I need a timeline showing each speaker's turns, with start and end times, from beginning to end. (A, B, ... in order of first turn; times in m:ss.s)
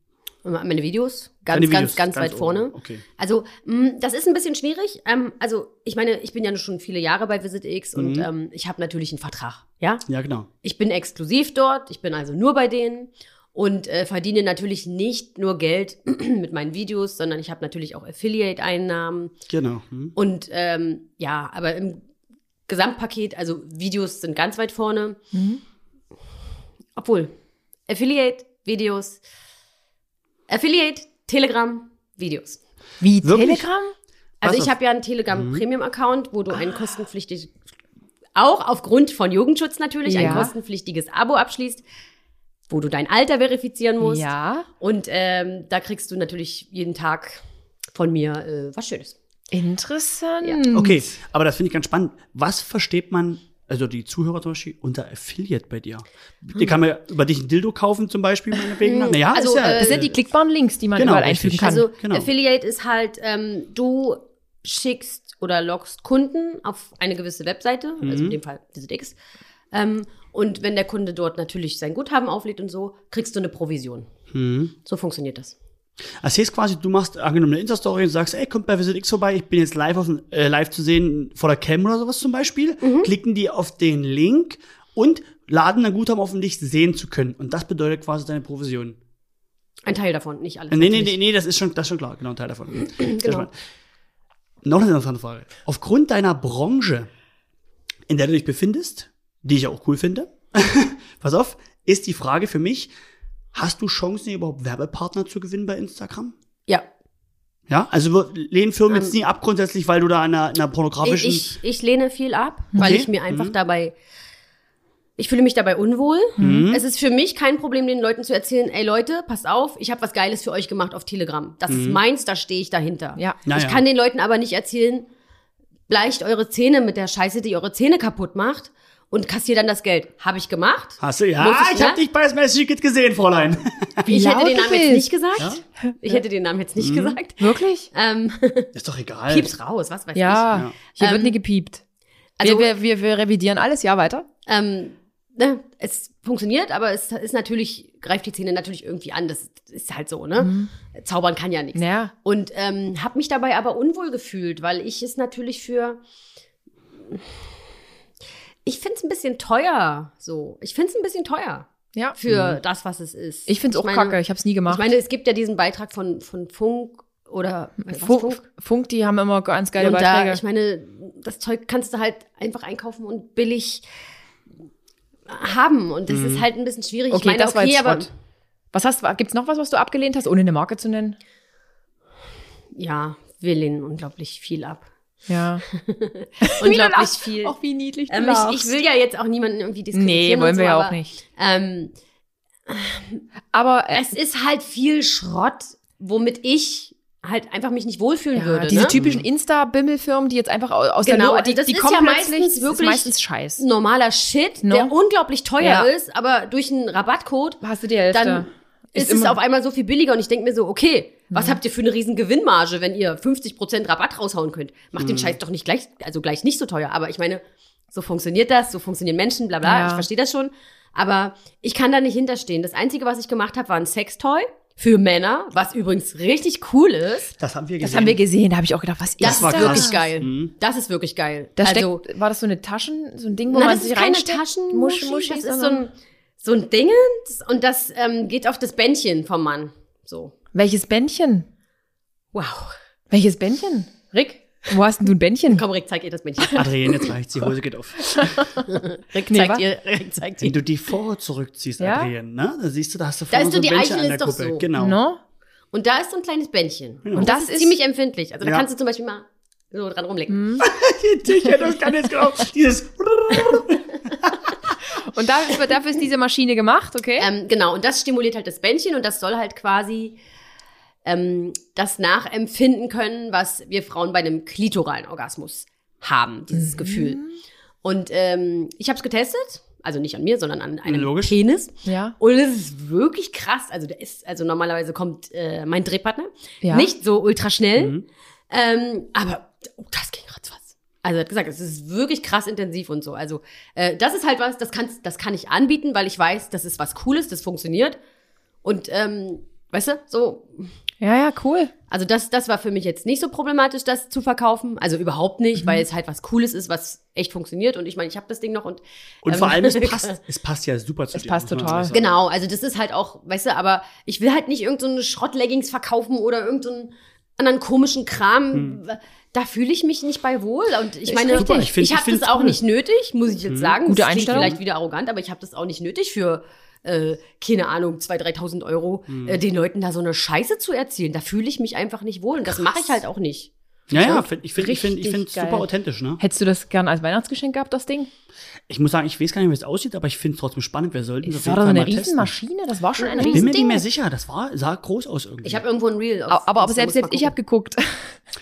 0:00.4-0:10.0 A
0:01.5-0:03.0 B
0:08.0-0:08.3 B
0:10.1-0:10.5 B
0:10.6-0:19.3 A
0:19.5-0:20.2 B
0:20.2-0:22.0 A
0:22.7-0:25.2 A
0:25.3-0:25.6 C
0:27.0-0:27.3 A
0:27.9-0:29.2 A
0:30.5-0:32.6 A
0:33.0-0:33.9 C
0:33.2-0:33.7 B
0:34.4-0:37.6 A
0:34.4-0:34.7 B
0:35.3-0:35.6 B
0:38.4-0:41.8 A
0:40.0-0:40.5 C
0:42.7-0:44.3 A
0:44.0-0:44.7 C
0:44.8-0:47.4 A
0:47.9-0:49.2 A
0:49.5-0:51.1 C
0:50.7-1:00.1 B
0:58.8-1:00.1 A
0:59.5-1:01.9 C
1:01.0-1:02.3 B
1:01.6-1:09.1 A
1:08.0-1:08.4 B
1:09.7-1:14.1 A
1:14.3-1:14.7 B
1:14.8-1:15.5 A
1:16.2-1:29.0 B
1:22.8-1:23.1 A
1:29.8-1:31.2 A
1:30.7-1:33.5 B
1:32.9-1:33.5 A
1:34.6-1:37.1 B
1:38.1-1:42.9 B
1:43.5-1:46.3 B
1:47.7-1:51.4 B
1:51.0-1:53.9 A
1:52.8-1:53.5 B
1:55.2-2:05.1 A
1:56.4-1:56.7 C
1:56.4-1:56.8 B
2:01.7-2:02.0 B
2:03.2-2:03.4 C
2:03.5-2:03.8 B
2:05.9-2:12.0 A
2:11.0-2:14.1 B
2:14.1-2:15.1 C
2:14.1-2:18.7 A
2:15.8-2:16.2 C
2:16.8-2:17.2 B
2:17.4-2:17.9 C
2:18.7-2:19.5 B
2:19.3-2:21.4 A
2:20.1-2:21.8 C
2:22.4-2:22.7 A
2:22.4-2:24.2 C
2:24.4-2:36.0 A
2:30.4-2:30.7 C
2:31.7-2:32.1 C
2:38.6-2:48.4 A
2:42.3-2:42.6 B
2:43.5-2:44.9 C
2:47.9-2:50.4 C
2:49.8-2:53.8 A
2:55.3-2:58.1 A
2:56.1-2:56.5 B
2:57.1-2:58.1 C
2:58.7-3:01.2 C
3:02.7-3:04.8 A
3:05.3-3:05.6 C
3:05.7-3:07.6 A
3:06.4-3:08.7 C
3:08.1-3:11.9 A
3:09.9-3:11.2 C
3:12.7-3:13.2 A
3:13.5-3:14.1 C
3:13.9-3:19.0 A
3:18.3-3:23.6 C
3:18.7-3:19.2 B
3:21.0-3:37.4 A
3:24.6-3:24.9 C
3:25.6-3:25.9 C
3:27.6-3:29.4 C
3:31.3-3:31.6 C
3:35.0-3:35.4 B
3:37.9-3:47.4 A
3:39.6-3:40.0 C
3:47.4-3:48.2 B
3:47.8-3:50.0 C
3:49.2-3:52.0 A
3:49.2-3:50.5 B
3:51.6-3:55.8 C
3:53.5-4:00.3 A
4:00.5-4:01.5 C
4:02.3-4:02.7 A
4:03.1-4:05.6 C
4:05.5-4:07.1 A
4:06.5-4:08.5 B
4:08.2-4:08.6 C
4:08.6-4:10.6 A
4:09.3-4:09.6 C
4:10.4-4:15.0 B
4:11.8-4:12.1 C
4:13.3-4:14.6 A
4:14.8-4:15.2 C
4:15.7-4:20.4 A
4:17.0-4:17.3 B
4:17.2-4:17.8 C
4:20.3-4:20.7 C
4:20.6-4:24.5 B
4:24.9-4:27.3 C
4:27.2-4:30.2 A
4:31.0-4:37.2 A
4:36.5-4:37.4 C
4:37.8-4:48.0 A
4:40.8-4:41.3 B
4:41.8-4:42.1 C
4:46.6-4:46.9 C
4:47.8-4:48.0 B
4:48.5-4:58.0 A
4:58.6-5:00.7 A
5:01.0-5:01.7 C
5:01.9-5:10.2 A
5:05.6-5:05.8 C
5:09.2-5:12.2 B
5:11.1-5:11.9 C
5:11.9-5:33.5 A
5:18.5-5:18.8 B
5:21.1-5:21.7 C
5:21.3-5:22.6 B
5:23.5-5:24.6 B
5:23.9-5:24.5 C
5:29.1-5:29.4 B
5:32.5-5:32.8 C
5:33.9-5:36.2 B
5:33.9-5:35.7 C
5:36.2-5:38.1 C
5:38.7-5:42.3 B
5:41.2-5:43.8 C
5:43.0-5:43.5 A
5:43.3-5:45.6 B
5:45.4-5:47.4 A
5:46.3-5:48.2 C